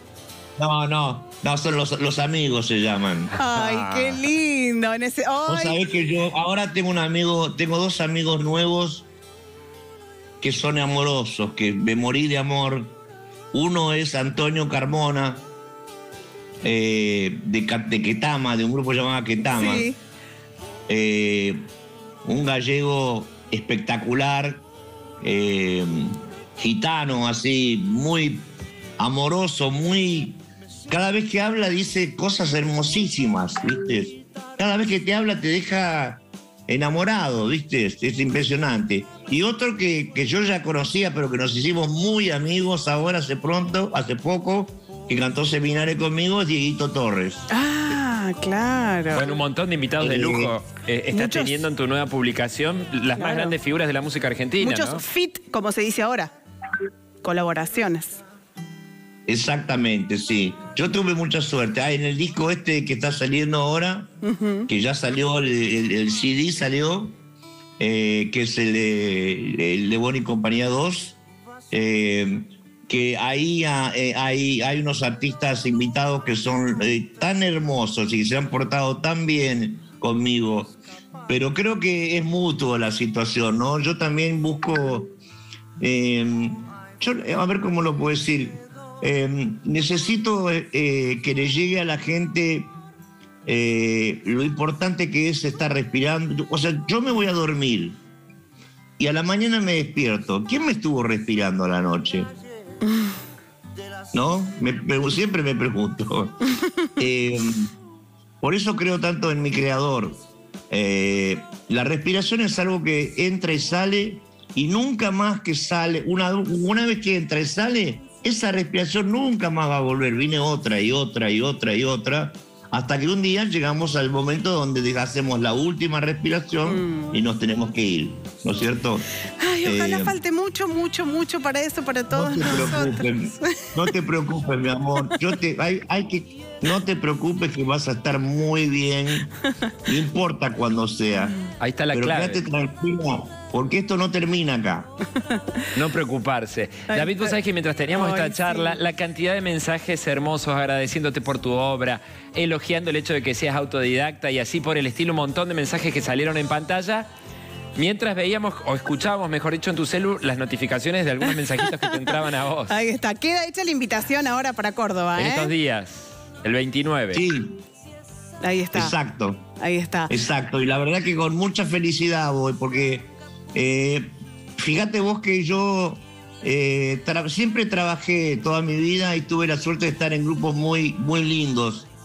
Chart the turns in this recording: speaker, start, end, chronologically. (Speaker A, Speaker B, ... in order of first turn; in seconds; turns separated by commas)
Speaker A: 0.6-3.3, Speaker B: 3.4-5.8, Speaker C: 3.5-4.2, Speaker A: 5.5-9.1, Speaker A: 10.4-12.9, Speaker A: 13.5-15.4, Speaker A: 16.6-19.9, Speaker B: 19.5-20.0, Speaker A: 20.9-21.6, Speaker A: 22.2-24.6, Speaker A: 25.2-28.5, Speaker A: 29.0-47.5, Speaker B: 47.5-49.3, Speaker C: 49.1-55.0, Speaker A: 50.0-50.5, Speaker B: 51.1-51.6, Speaker B: 53.1-53.5, Speaker B: 54.6-56.3, Speaker B: 57.2-58.2, Speaker A: 59.3-64.1, Speaker B: 64.2-64.7, Speaker A: 64.7-67.1, Speaker A: 67.8-71.2, Speaker A: 71.7-80.7, Speaker A: 81.3-85.1, Speaker A: 85.8-92.7, Speaker A: 93.5-98.0, Speaker A: 99.0-102.3, Speaker B: 102.9-103.1, Speaker A: 104.1-106.4, Speaker A: 107.0-107.7, Speaker A: 108.4-110.2, Speaker A: 110.7-129.1, Speaker B: 126.7-127.2, Speaker B: 129.4-133.7, Speaker A: 129.6-130.2, Speaker A: 132.1-139.3, Speaker A: 139.9-141.3, Speaker C: 141.6-142.4, Speaker A: 141.9-144.9, Speaker B: 145.2-145.7, Speaker C: 145.8-157.1, Speaker B: 146.9-147.4, Speaker B: 147.9-148.8, Speaker C: 157.8-162.7, Speaker B: 161.3-161.9, Speaker B: 162.7-165.5, Speaker C: 165.2-167.2, Speaker A: 167.1-167.6, Speaker B: 168.4-169.0, Speaker A: 168.7-169.4, Speaker B: 169.6-170.1, Speaker A: 170.1-181.9